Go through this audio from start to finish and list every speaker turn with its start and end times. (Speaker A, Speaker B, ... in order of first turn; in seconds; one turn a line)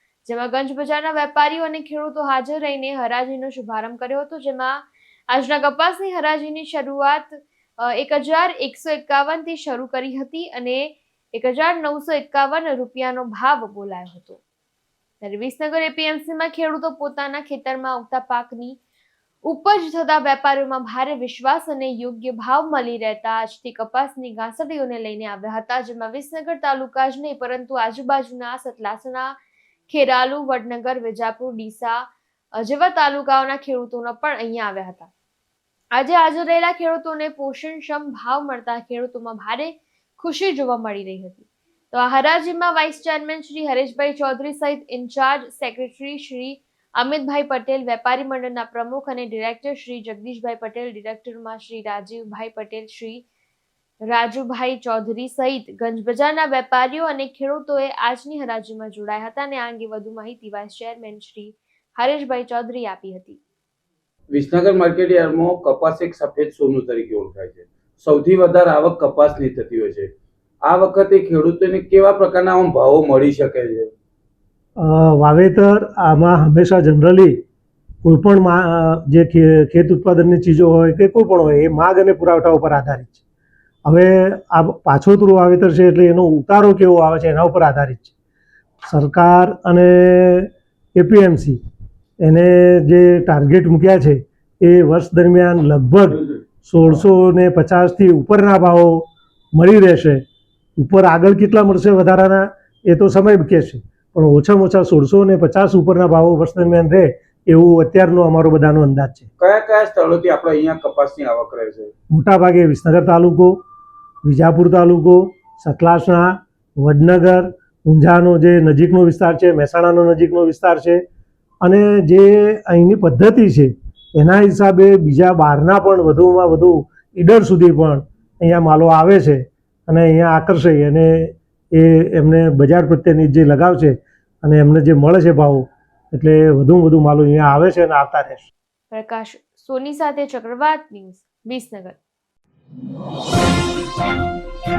Speaker A: 0.2-14.4
Speaker A: 15.2-18.8
Speaker A: 19.4-29.3
Speaker A: 29.9-35.1
Speaker A: 35.9-53.2
Speaker A: 54.0-63.4
Speaker B: 64.3-70.1
Speaker B: 70.6-73.9
Speaker C: 74.8-77.4
Speaker C: 78.0-83.2
Speaker C: 83.8-88.1
Speaker C: 88.9-91.6
Speaker C: 92.2-100.2
Speaker C: 100.8-109.3
Speaker B: 109.4-111.9
Speaker C: 112.1-113.6
Speaker C: 114.2-121.0
Speaker C: 121.6-138.5
Speaker A: 138.9-142.0